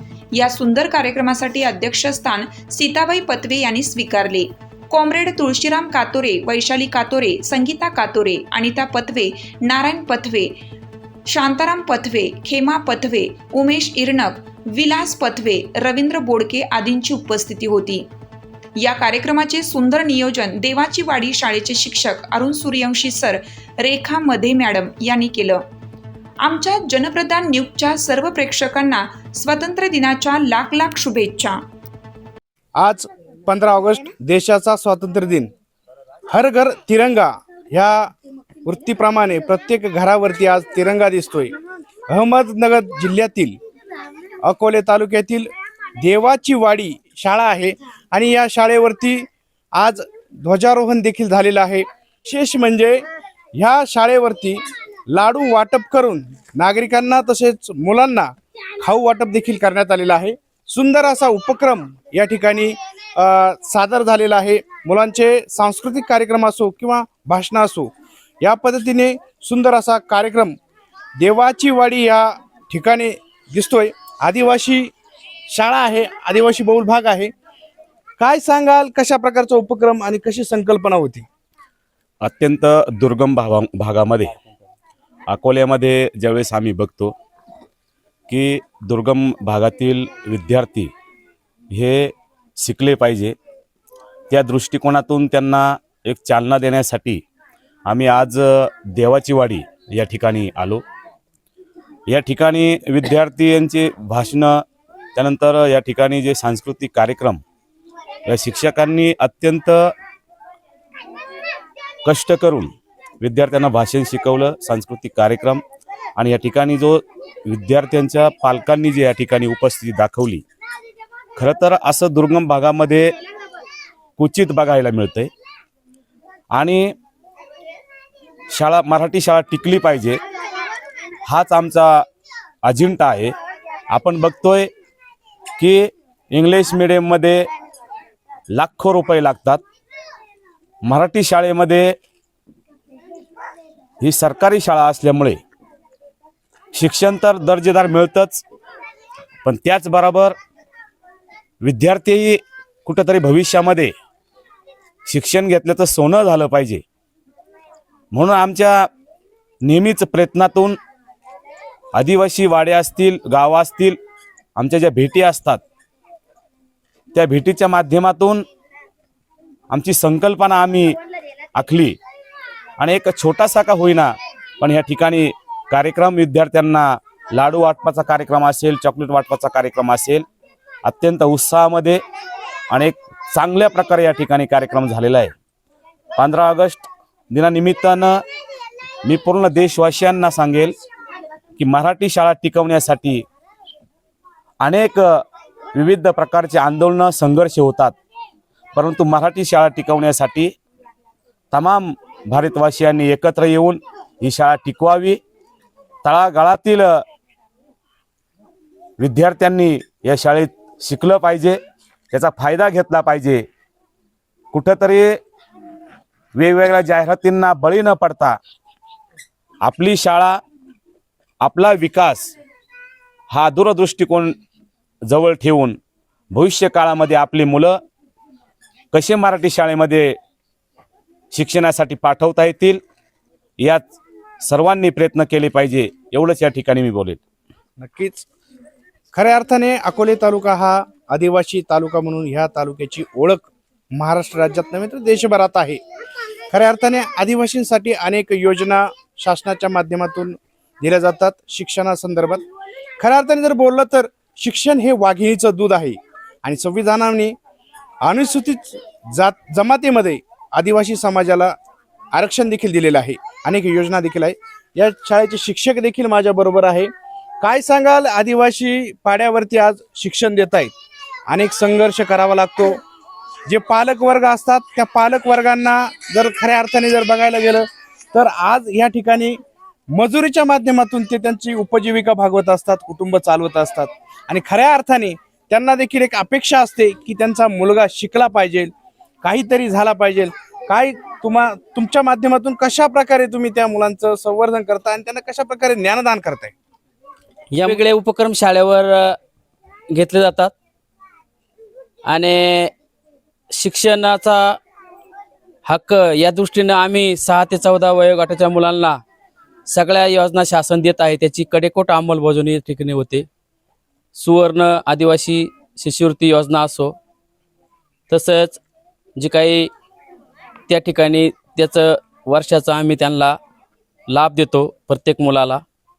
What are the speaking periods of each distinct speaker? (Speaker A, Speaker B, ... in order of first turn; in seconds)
Speaker A: 0.3-10.5, 11.3-18.1, 18.8-25.6, 26.4-31.6
Speaker B: 32.8-35.5, 36.3-38.1, 38.6-41.5, 42.1-43.6, 44.4-45.5, 46.0-53.0, 53.6-54.6, 55.1-58.3, 58.8-67.9, 68.4-70.5, 71.2-74.9, 75.5-77.3, 78.2-81.2, 237.8-238.3, 239.1-245.8, 246.5-252.4, 253.0-257.3, 258.0-261.5, 262.1-266.9, 267.4-270.7, 271.3-272.8, 273.5-279.4, 279.9-288.7, 289.2-296.5
Speaker C: 82.2-84.3, 85.3-87.1, 88.3-90.9, 91.7-92.1, 92.6-93.3, 94.3-97.2, 97.9-100.8, 102.1-104.5, 105.1-107.4, 108.2-109.8, 112.0-112.7, 113.2-115.6, 116.2-120.4, 121.3-123.1, 124.2-125.3, 126.5-126.9, 128.5-130.2, 131.2-132.0, 132.6-133.3, 133.9-134.7, 135.6-137.4, 138.5-139.6, 140.8-141.9, 144.0-145.4, 146.7-148.4, 149.4-150.3, 151.6-153.9, 155.1-156.8, 158.1-158.9, 159.6-160.8, 161.9-164.0, 164.6-165.6, 167.1-168.4, 169.7-171.0, 171.5-172.0, 172.8-180.2, 180.8-182.0, 182.7-185.3, 186.2-188.2, 189.0-190.8, 191.6-193.2, 194.6-195.2, 195.7-197.9, 198.7-200.5, 201.5-205.2, 206.0-207.0, 209.0-211.6, 212.1-213.4, 214.5-215.2, 216.3-218.4, 219.6-220.4, 221.4-222.3, 223.3-224.4, 225.1-225.8, 226.3-227.8, 228.9-230.1, 231.3-232.8, 233.6-237.2, 298.1-299.1, 300.0-300.4, 302.1-302.7, 303.5-304.5, 305.7-308.9, 309.7-313.2, 314.1-316.9, 318.1-318.6, 319.2-319.7, 320.8-323.3, 324.1-325.5
Speaker D: 297.5-299.1, 299.9-300.5, 302.1-302.7, 303.6-304.5, 305.7-309.0, 309.7-313.2, 314.2-316.9, 318.1-318.5, 319.2-319.7, 320.7-323.4, 324.1-325.6